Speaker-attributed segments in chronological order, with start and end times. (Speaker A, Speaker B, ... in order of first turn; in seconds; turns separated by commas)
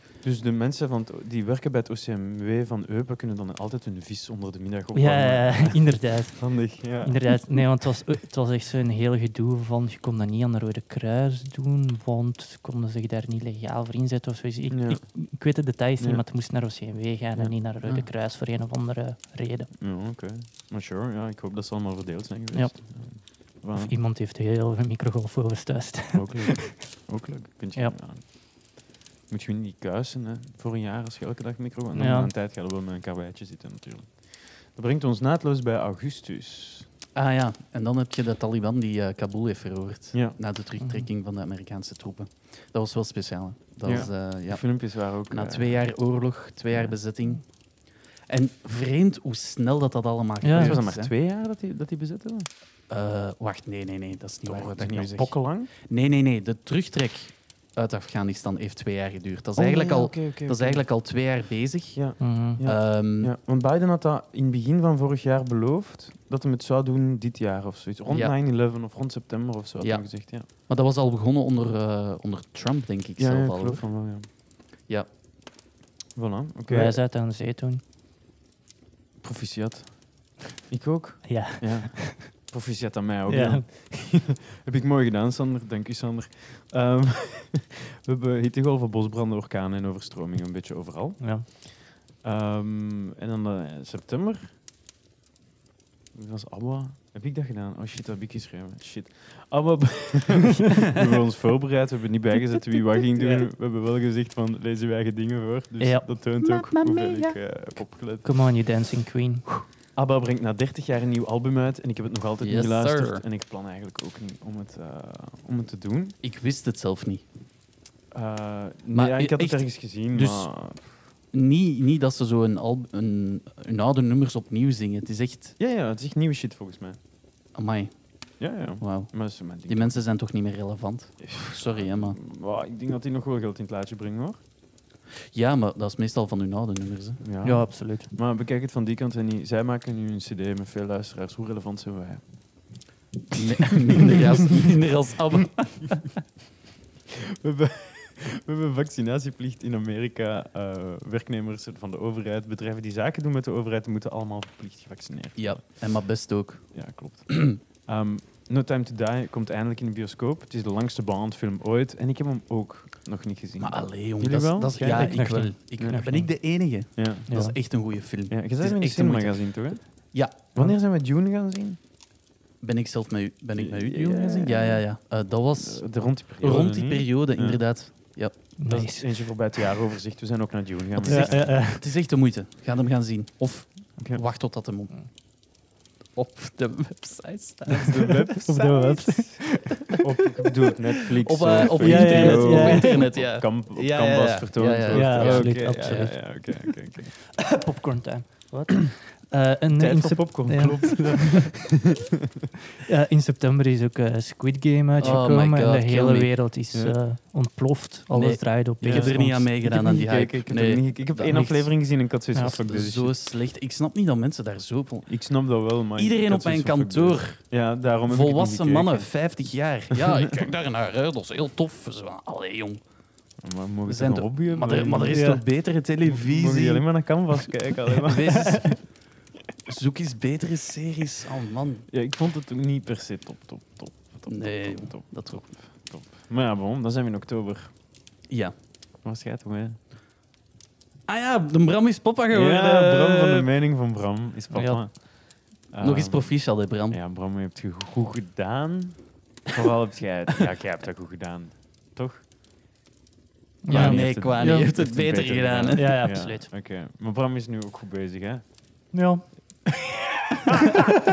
Speaker A: 0.2-7.6, Speaker B: 4.9-19.7, Speaker A: 14.7-16.2, Speaker A: 19.8-23.9, Speaker B: 22.5-27.1, Speaker A: 26.1-36.9, Speaker B: 31.9-32.3, Speaker C: 37.1-51.1, Speaker A: 40.1-40.4, Speaker B: 40.8-41.1, Speaker A: 43.8-46.2, Speaker A: 46.7-47.0, Speaker B: 50.4-50.8, Speaker A: 50.5-52.5, Speaker C: 52.9-63.3, Speaker A: 54.4-55.7, Speaker A: 59.5-61.3, Speaker A: 61.9-70.5, Speaker B: 62.2-62.6, Speaker C: 68.1-68.3, Speaker C: 69.8-73.9, Speaker A: 73.2-74.3, Speaker A: 76.1-77.0, Speaker B: 76.7-77.8, Speaker A: 79.2-94.6, Speaker B: 81.2-82.3, Speaker B: 83.3-83.7, Speaker B: 91.2-91.5, Speaker A: 96.1-108.8, Speaker B: 105.8-106.1, Speaker C: 106.4-107.4, Speaker B: 108.2-109.5, Speaker A: 109.9-116.2, Speaker C: 112.4-113.2, Speaker C: 116.2-117.2, Speaker A: 118.1-120.9, Speaker C: 118.9-120.5, Speaker C: 121.3-125.5, Speaker A: 125.6-127.0, Speaker C: 127.5-132.2, Speaker A: 128.4-130.0, Speaker A: 131.2-134.4, Speaker C: 135.3-137.2, Speaker A: 137.2-142.8, Speaker B: 137.4-138.1, Speaker C: 143.3-146.1, Speaker A: 147.4-167.3, Speaker C: 155.3-157.6, Speaker C: 163.6-170.4, Speaker B: 164.8-166.3, Speaker B: 167.3-167.6, Speaker A: 167.8-171.8, Speaker C: 172.6-178.3, Speaker A: 173.6-181.5, Speaker B: 178.6-179.6, Speaker C: 181.0-185.1, Speaker B: 181.1-181.8, Speaker A: 184.0-184.2, Speaker C: 186.1-189.5, Speaker A: 187.7-197.2, Speaker B: 188.4-189.5, Speaker C: 191.1-196.5, Speaker B: 191.8-193.1, Speaker B: 194.9-196.4, Speaker B: 197.3-201.4, Speaker A: 199.8-202.0, Speaker B: 202.8-209.5, Speaker C: 205.0-206.4, Speaker A: 206.7-207.0, Speaker C: 208.1-215.1, Speaker A: 208.8-213.2, Speaker A: 215.1-219.3, Speaker C: 215.9-217.5, Speaker C: 218.0-222.8, Speaker A: 219.9-220.5, Speaker A: 223.4-225.3, Speaker C: 223.8-227.0, Speaker B: 225.1-225.4, Speaker A: 226.1-228.7, Speaker C: 228.0-229.0, Speaker B: 228.3-228.6, Speaker C: 229.7-231.8, Speaker A: 231.9-237.7, Speaker C: 234.3-235.5, Speaker C: 238.3-238.5, Speaker A: 239.0-239.8, Speaker C: 241.1-243.5, Speaker A: 242.3-252.2, Speaker B: 244.5-244.8, Speaker C: 245.8-247.0, Speaker B: 253.6-254.7, Speaker C: 253.7-256.1, Speaker A: 253.7-258.5, Speaker B: 255.7-256.5, Speaker B: 258.9-259.3